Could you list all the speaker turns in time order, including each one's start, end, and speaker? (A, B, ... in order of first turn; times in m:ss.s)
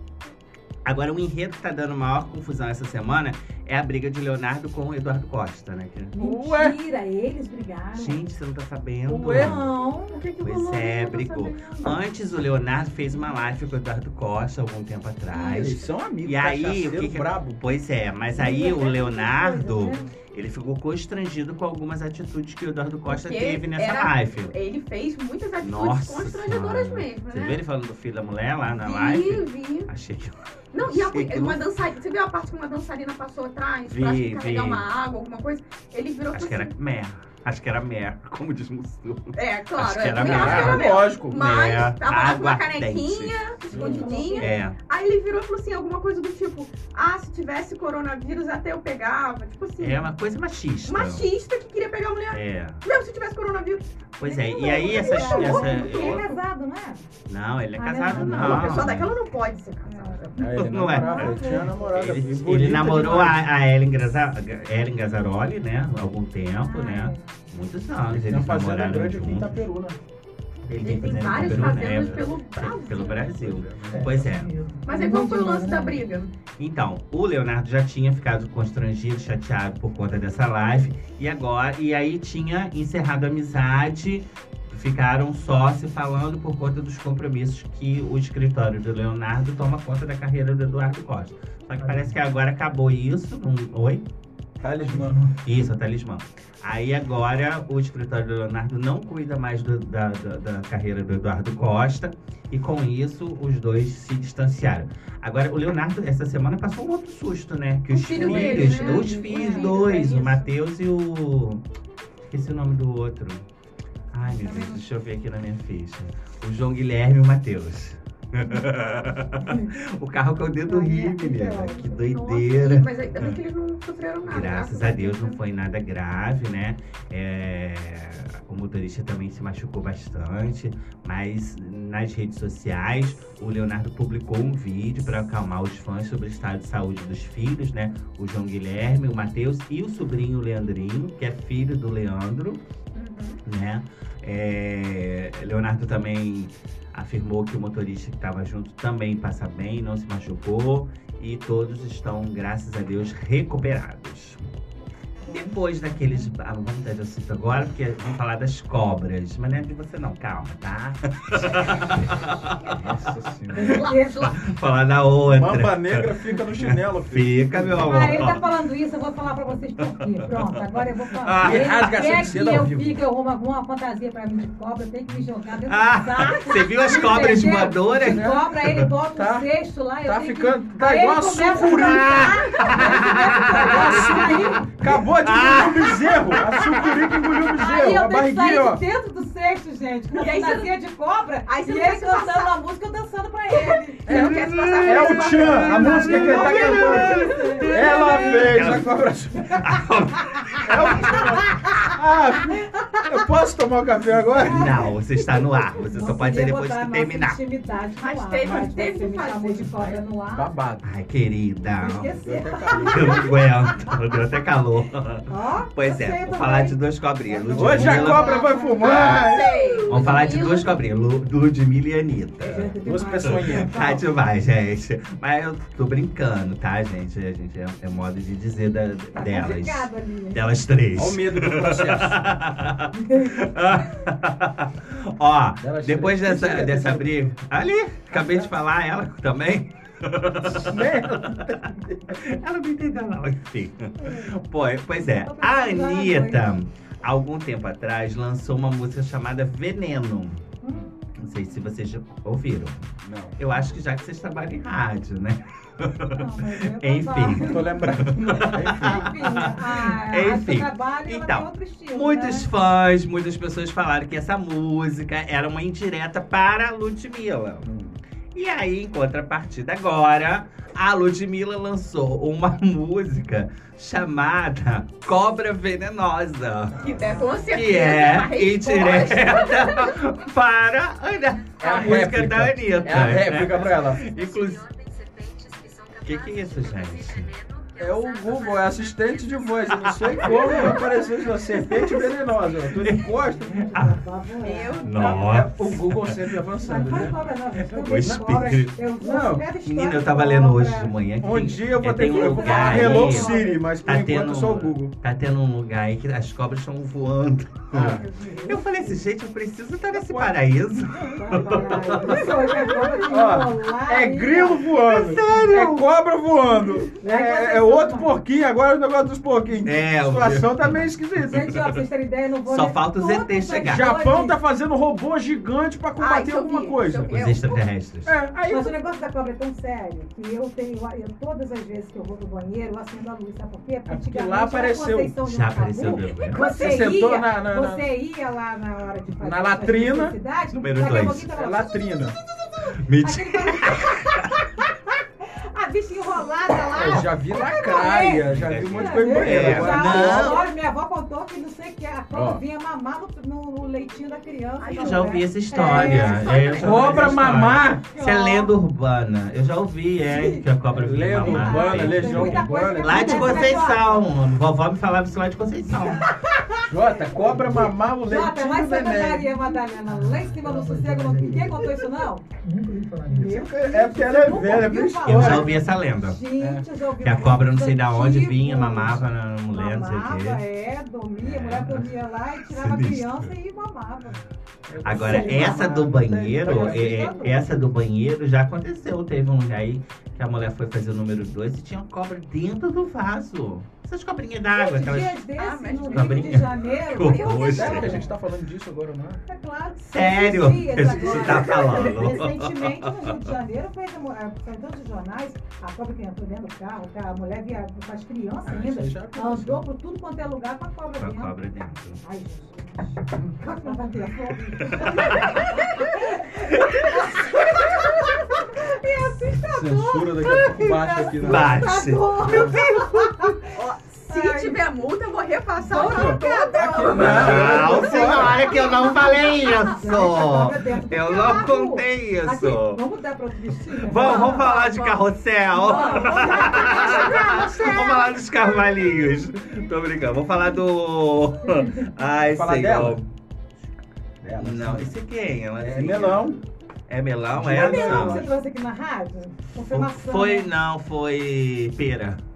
0:00.8-0:06.1 A
0:06.2-0:08.2 B
0:06.2-0:06.8 C
0:08.0-0:09.7 A
0:09.1-0:09.6 C
0:09.2-0:10.2 B
0:10.0-0:12.0 D
0:10.4-0:24.5 A
0:15.3-0:17.6 C
0:18.3-0:20.1 B
0:23.1-0:27.6 D
0:25.6-0:31.6 A
0:28.7-0:29.9 D
0:30.7-0:36.7 D
0:33.9-0:34.8 A
0:36.3-0:44.8 A
0:39.4-0:50.1 D
0:40.2-0:41.4 C
0:43.7-0:44.6 B
0:43.7-0:44.0 C
0:49.8-0:51.3 A
0:50.8-0:53.9 D
0:52.3-0:52.8 A
0:54.2-0:56.3 A
0:54.2-0:57.1 B
0:54.5-0:56.4 D
0:57.3-0:59.1 A
0:57.8-0:58.8 B
0:58.1-0:59.0 C
0:58.2-1:00.5 D
0:59.8-1:01.9 B
1:00.4-1:03.5 C
1:00.5-1:09.6 A
1:06.6-1:07.5 B
1:08.1-1:10.0 C
1:10.7-1:14.5 A
1:10.8-1:13.3 D
1:11.2-1:12.3 C
1:13.0-1:14.1 C
1:13.9-1:14.9 E
1:14.8-1:16.2 B
1:14.8-1:16.3 D
1:16.6-1:34.0 A
1:31.8-1:32.1 E
1:34.6-1:35.2 C
1:34.9-1:35.3 E
1:35.4-1:51.6 A
1:47.9-1:50.5 D
1:48.2-1:49.8 B
1:52.3-1:53.4 A
1:54.1-2:03.4 A
1:54.2-1:54.8 B
1:59.4-1:59.7 B
2:00.6-2:02.2 B
2:01.9-2:05.4 D
2:04.3-2:22.6 A
2:23.0-2:23.4 D
2:23.4-2:34.4 A
2:35.3-2:42.8 A
2:42.7-2:43.8 C
2:43.5-2:44.4 B
2:43.6-2:44.4 D
2:43.6-2:46.1 A
2:45.3-2:48.3 C
2:46.6-2:48.4 A
2:47.8-3:04.7 B
2:51.2-2:51.8 A
2:51.4-2:53.0 C
2:55.6-2:58.8 A
2:57.8-2:58.5 C
2:59.2-2:59.5 C
3:00.0-3:08.8 C
3:01.7-3:07.0 A
3:06.7-3:14.4 B
3:10.1-3:10.7 D
3:11.5-3:12.6 D
3:13.6-3:17.8 D
3:14.1-3:19.6 C
3:14.1-3:18.9 A
3:15.2-3:18.6 B
3:19.4-3:21.8 B
3:19.5-3:21.6 A
3:20.6-3:24.9 C
3:22.5-3:23.2 B
3:24.5-3:27.4 A
3:24.5-3:30.5 B
3:28.0-3:29.7 D
3:29.8-3:30.9 C
3:30.8-3:38.4 A
3:31.8-3:33.9 B
3:32.2-3:33.4 C
3:35.3-3:39.7 B
3:37.5-3:39.9 C
3:38.8-3:40.8 D
3:39.9-4:01.5 A
3:42.4-3:44.0 B
3:42.8-3:43.9 C
3:49.1-3:50.5 B
3:50.9-3:52.2 C
3:52.9-3:53.4 B
3:55.6-3:57.3 C
3:58.1-3:58.5 C
4:00.5-4:02.2 C
4:02.1-4:10.5 A
4:04.0-4:04.4 B
4:05.0-4:06.5 B
4:10.6-4:11.1 B
4:11.2-4:27.7 A
4:13.0-4:13.4 C
4:16.1-4:22.5 B
4:17.4-4:19.5 C
4:27.6-4:28.0 C
4:28.3-4:36.8 A
4:36.7-4:37.3 C
4:36.8-4:40.0 D
4:37.0-4:37.5 B
4:37.5-4:44.7 A
4:41.6-4:44.1 C
4:46.0-4:47.3 A
4:47.7-4:53.7 C
4:49.8-4:50.8 A
4:50.2-4:51.0 B
4:51.5-4:52.1 B
4:52.8-4:53.0 A
4:53.0-4:55.2 B
4:53.7-4:54.0 A
4:54.4-4:55.3 D
4:54.8-4:56.2 A
4:54.9-4:57.2 C
4:56.6-5:00.9 B
4:57.8-4:58.7 A
4:57.8-4:59.5 C
4:59.6-5:12.5 A
5:01.2-5:04.9 C
5:02.0-5:03.7 B
5:07.7-5:08.0 C
5:08.0-5:08.9 B
5:09.9-5:10.4 C
5:11.1-5:21.6 C
5:11.1-5:14.7 B
5:14.7-5:15.8 A
5:17.0-5:18.1 B
5:19.6-5:20.9 A
5:21.2-5:24.4 B
5:22.5-5:23.9 A
5:23.6-5:27.1 C
5:26.0-5:27.7 D
5:27.1-5:28.1 A
5:28.1-5:28.7 C
5:28.5-5:58.5 B
5:33.9-5:35.2 C
5:35.2-5:36.4 A
5:36.3-5:37.8 C
5:39.2-5:40.2 C
5:40.5-5:41.3 A
5:41.3-5:42.2 C
5:42.7-5:44.3 A
5:46.7-5:50.4 C
5:48.2-5:50.5 A
5:52.1-5:52.4 C
5:54.6-5:56.9 D
5:54.7-6:06.1 A
5:56.6-5:57.8 C
6:00.0-6:00.5 B
6:00.7-6:03.6 C
6:01.2-6:04.1 B
6:05.7-6:12.3 B
6:06.7-6:09.3 C
6:09.8-6:13.5 E
6:13.1-6:24.2 B
6:13.1-6:15.5 C
6:15.0-6:16.2 A
6:16.4-6:16.6 C
6:17.0-6:20.4 A
6:21.2-6:21.9 A
6:22.5-6:23.3 A
6:24.7-6:27.2 C
6:24.8-6:35.2 A
6:24.9-6:25.8 B
6:26.4-6:27.6 B
6:34.5-6:38.1 B
6:35.4-6:38.0 D
6:35.9-6:38.0 A
6:37.5-6:39.2 C
6:39.3-6:51.3 B
6:39.9-6:42.8 A
6:41.1-6:41.7 D
6:48.4-6:49.6 C
6:51.0-6:52.0 A
6:52.0-7:04.6 B
6:54.7-6:55.6 A
6:56.8-6:57.3 A
6:59.4-7:01.6 C
7:01.2-7:03.3 A
7:02.2-7:02.6 C
7:03.6-7:07.8 D
7:05.6-7:14.6 B
7:05.8-7:08.4 C
7:07.0-7:12.8 A
7:08.4-7:09.0 D
7:13.7-7:23.0 A
7:13.9-7:18.1 D
7:15.5-7:18.1 B
7:21.5-7:21.9 B
7:22.3-7:23.0 C
7:24.2-7:25.0 C
7:24.4-7:26.4 A
7:25.6-7:26.4 C
7:26.9-7:28.2 A
7:27.3-7:28.3 C
7:27.5-7:30.5 B
7:29.6-7:32.2 A